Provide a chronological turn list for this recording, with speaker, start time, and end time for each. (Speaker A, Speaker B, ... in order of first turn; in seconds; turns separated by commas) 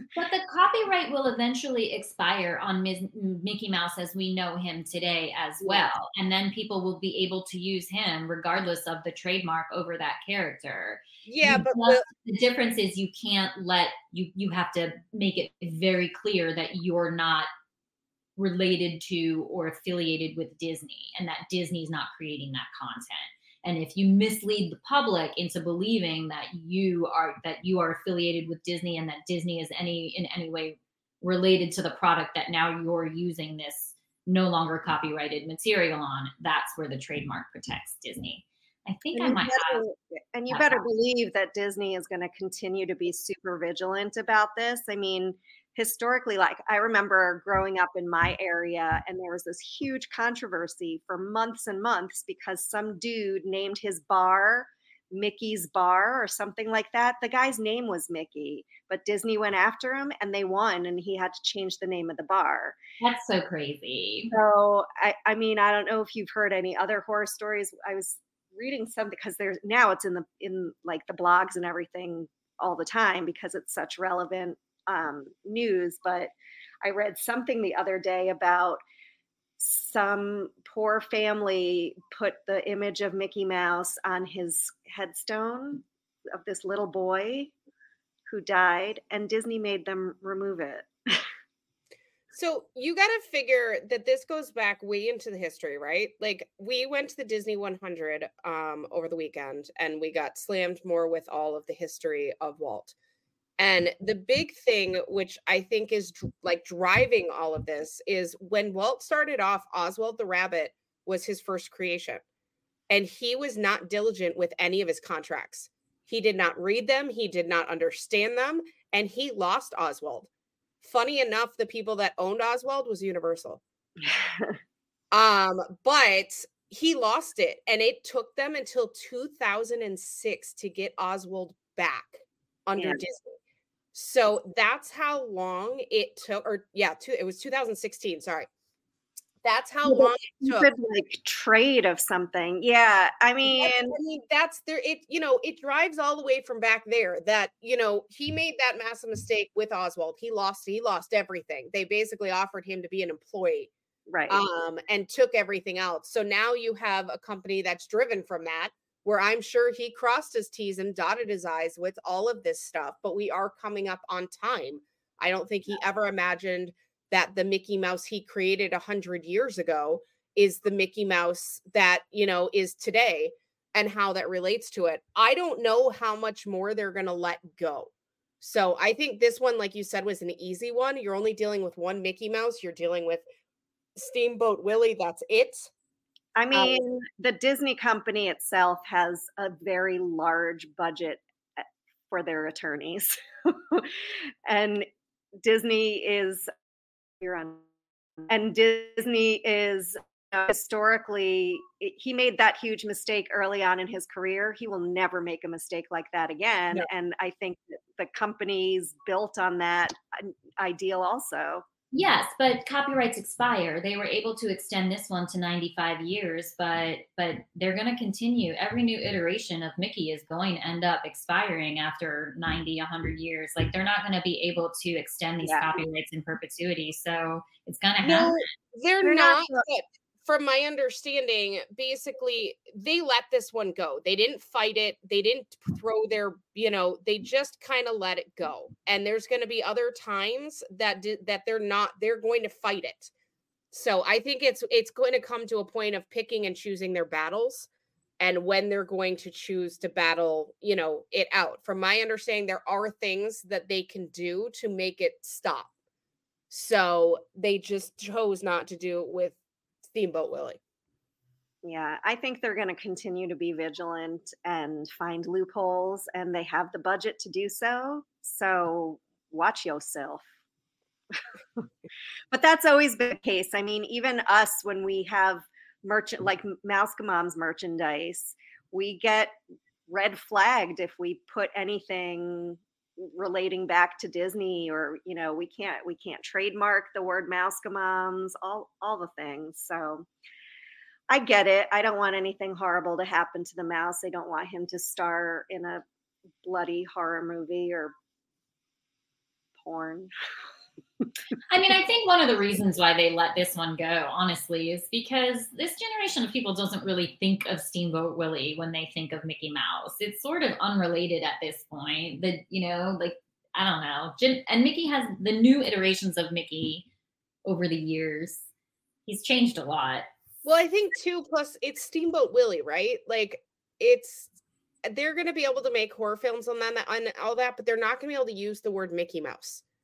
Speaker A: 0.1-17.5, Speaker B: 11.2-12.0, Speaker A: 18.4-39.8, Speaker C: 39.1-62.8, Speaker A: 40.5-40.8, Speaker A: 63.0-64.3, Speaker C: 64.3-78.8, Speaker C: 79.6-87.5, Speaker C: 88.3-91.2, Speaker B: 92.3-102.9, Speaker B: 103.6-112.2, Speaker B: 112.9-120.3, Speaker B: 120.8-123.6, Speaker C: 124.0-124.6, Speaker B: 125.1-133.4, Speaker C: 132.8-133.0, Speaker B: 133.9-138.5, Speaker B: 139.4-140.7, Speaker C: 139.8-144.0, Speaker B: 143.4-153.7, Speaker C: 154.1-154.4, Speaker B: 154.3-177.9, Speaker B: 178.4-183.2, Speaker B: 184.0-185.7, Speaker C: 186.4-194.9, Speaker B: 186.5-186.8, Speaker C: 195.4-196.5, Speaker C: 197.2-197.6, Speaker C: 198.2-211.6, Speaker A: 211.9-228.4, Speaker C: 225.4-225.8, Speaker B: 228.0-243.1, Speaker C: 229.0-229.7, Speaker B: 243.7-247.7, Speaker B: 248.2-255.7, Speaker B: 256.5-259.4, Speaker B: 259.9-260.6, Speaker C: 261.6-270.2, Speaker C: 272.3-279.4, Speaker C: 279.9-290.1, Speaker C: 291.1-295.8, Speaker C: 296.4-297.9, Speaker C: 299.6-300.1, Speaker A: 301.5-316.9, Speaker A: 317.4-318.5, Speaker A: 319.1-320.1, Speaker B: 320.4-324.3, Speaker B: 324.8-329.6